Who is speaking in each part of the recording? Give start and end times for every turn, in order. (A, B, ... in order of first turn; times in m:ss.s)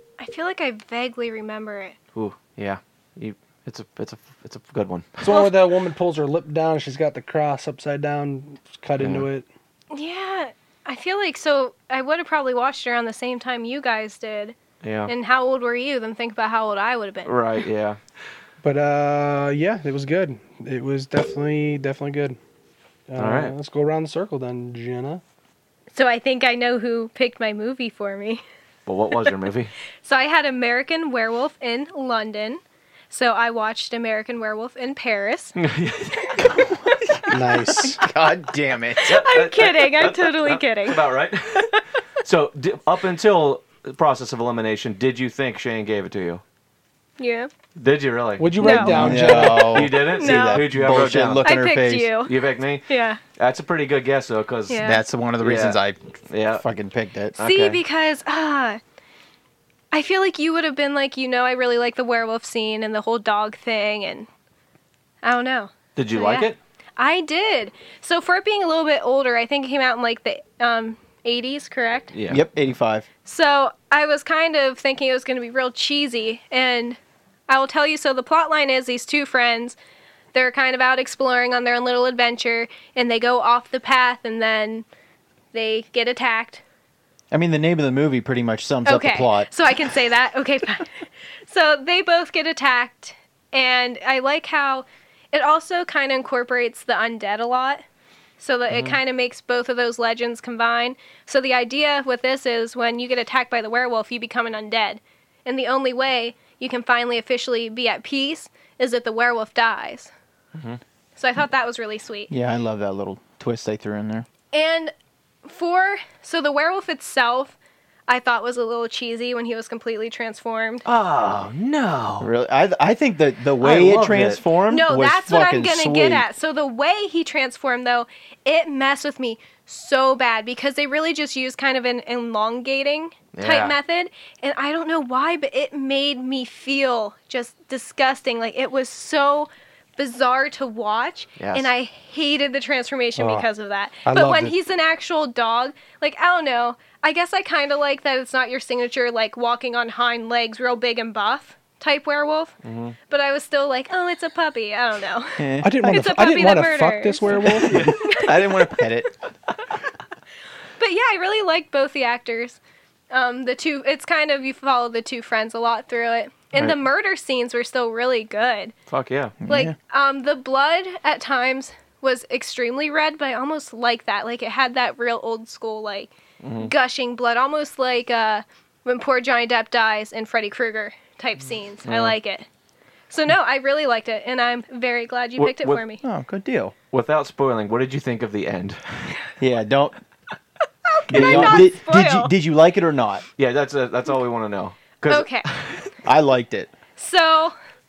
0:00.2-0:02.0 A
0:02.2-0:05.4 B
0:05.2-0:09.5 C
0:09.0-0:09.3 B
0:09.9-0:17.3 A
0:14.8-0:15.1 B
0:17.3-0:18.0 B
0:18.6-0:22.4 C
0:23.1-0:25.2 C
0:23.2-0:23.5 B
0:25.9-0:28.4 A
0:28.9-0:29.7 B
0:30.0-0:35.6 A
0:35.6-0:36.8 B
0:37.3-0:38.0 C
0:38.0-0:39.2 D
0:39.0-0:41.0 A
0:39.1-0:46.4 B
0:47.2-0:47.5 A
0:47.8-0:51.5 B
0:48.4-0:49.9 C
0:48.6-0:49.0 A
0:48.9-0:52.1 D
0:50.2-0:50.6 A
0:51.4-0:52.4 A
0:52.3-0:54.8 B
0:52.9-0:53.2 A
0:54.7-0:55.0 A
0:54.8-0:57.4 D
0:55.4-0:55.8 B
0:56.3-0:56.6 B
0:57.4-0:57.8 B
0:57.4-0:58.8 A
0:59.9-1:04.3 A
1:05.2-1:12.1 A
1:06.0-1:06.6 B
1:12.1-1:12.4 B
1:12.3-1:13.1 D
1:13.2-1:19.8 A
1:20.3-1:24.9 A
1:25.5-1:26.6 A
1:27.3-1:29.5 D
1:28.8-1:37.8 A
1:38.4-1:50.1 A
1:38.7-1:39.0 B
1:50.6-1:50.8 B
1:51.2-1:52.3 A
1:52.3-1:54.3 D
1:54.5-1:54.9 A
1:55.4-1:57.6 A
1:58.1-2:00.8 A
2:00.9-2:02.3 B
2:02.2-2:06.2 D
2:03.6-2:04.5 B
2:04.7-2:32.6 A
2:13.3-2:13.8 B
2:21.4-2:21.7 B
2:23.2-2:23.5 C
2:24.0-2:24.6 C
2:32.6-2:33.0 B
2:33.1-2:38.4 A
2:35.4-2:36.1 D
2:35.6-2:37.8 C
2:37.7-2:38.0 B
2:37.7-2:39.1 D
2:40.8-2:42.6 A
2:43.1-2:48.7 A
2:48.9-2:49.4 B
2:49.4-2:49.7 D
2:49.5-3:02.5 A
2:56.4-2:56.7 B
3:01.8-3:02.2 B
3:03.1-3:06.0 A
3:05.4-3:05.8 B
3:06.0-3:06.7 D
3:06.9-3:09.2 B
3:09.4-3:10.0 D
3:10.9-3:12.3 A
3:11.1-3:11.7 B
3:11.1-3:13.2 D
3:13.4-3:15.9 B
3:15.1-3:15.5 A
3:16.0-3:16.7 D
3:17.0-3:17.6 A